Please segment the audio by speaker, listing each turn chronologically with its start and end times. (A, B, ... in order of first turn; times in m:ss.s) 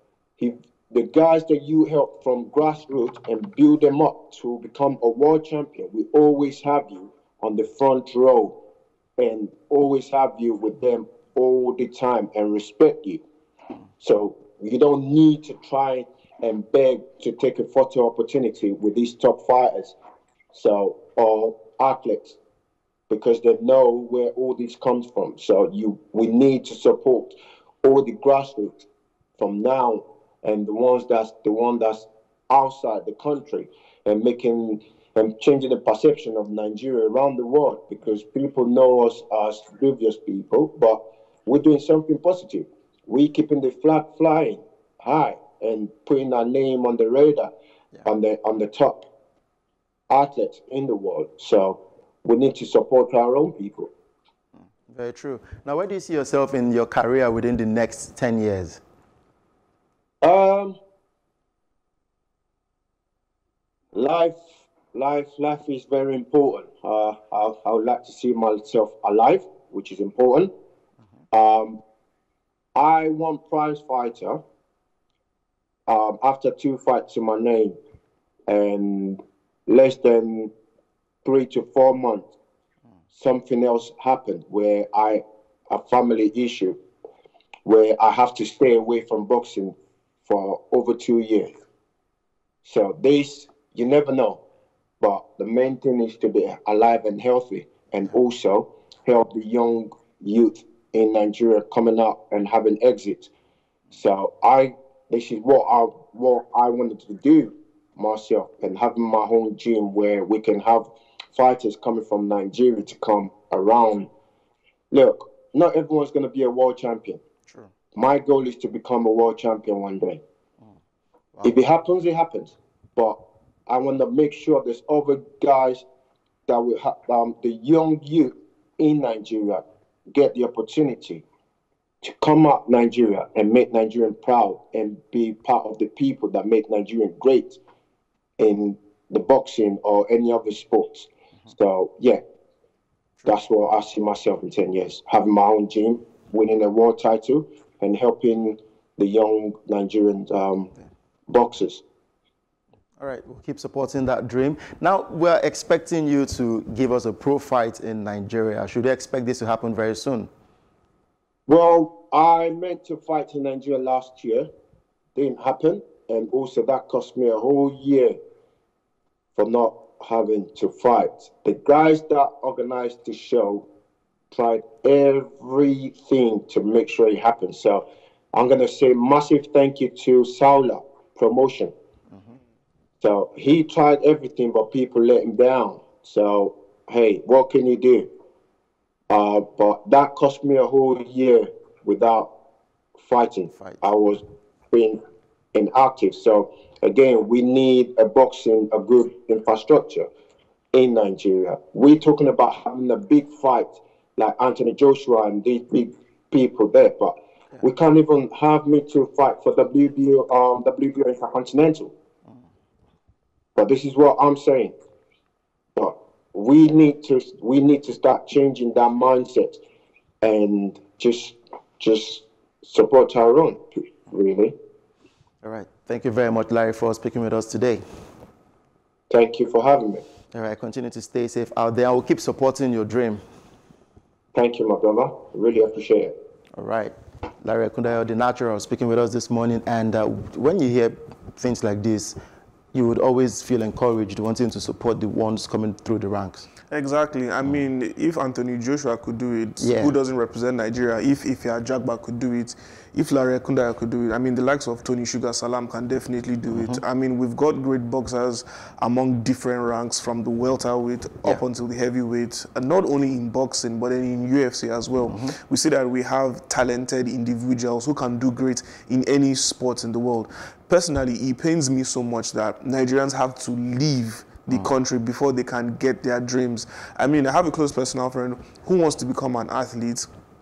0:00.4-0:08.6 A
0:09.2-0:13.2 A
0:14.0-0:20.0 A
0:20.5-0:22.4 A
0:23.1-0:28.8 A
0:29.4-0:47.5 A
0:48.0-0:49.0 A
0:50.1-0:53.9 A
0:54.9-0:58.8 B
1:00.2-1:00.8 A
1:03.9-1:10.5 A
1:11.3-1:11.8 A
1:12.8-1:14.4 A
1:15.9-1:17.8 A
1:18.5-1:20.5 A
1:21.2-1:22.3 A
1:23.2-1:26.8 A
1:27.6-1:31.5 A
1:32.6-1:34.4 A
1:35.0-1:43.3 A
1:43.9-1:54.1 A
1:54.9-1:57.2 A
1:57.5-1:57.7 B
1:57.9-2:00.2 A
2:01.4-2:05.8 A
2:06.5-2:11.2 A
2:12.0-2:17.6 A
2:18.4-2:22.2 A
2:23.2-2:30.7 A
2:31.3-2:31.8 A
2:33.0-2:40.3 B
2:41.5-2:44.5 A
2:45.2-2:48.2 A
2:49.4-2:53.7 A
2:54.3-3:01.7 A
3:03.0-3:08.1 A
3:09.1-3:12.3 A
3:13.0-3:15.0 A
3:13.5-3:13.8 B
3:15.5-3:20.1 A
3:20.7-3:31.9 A
3:33.6-3:34.7 A
3:35.8-3:39.6 A
3:40.2-3:44.6 A
3:45.4-3:47.8 B
3:49.1-3:50.0 A
3:50.3-3:53.2 B
3:54.4-3:56.1 A
3:56.6-4:02.2 B
4:02.7-4:06.5 B
4:06.7-4:40.1 C
4:09.6-4:10.0 B
4:16.5-4:16.8 B
4:25.0-4:25.4 B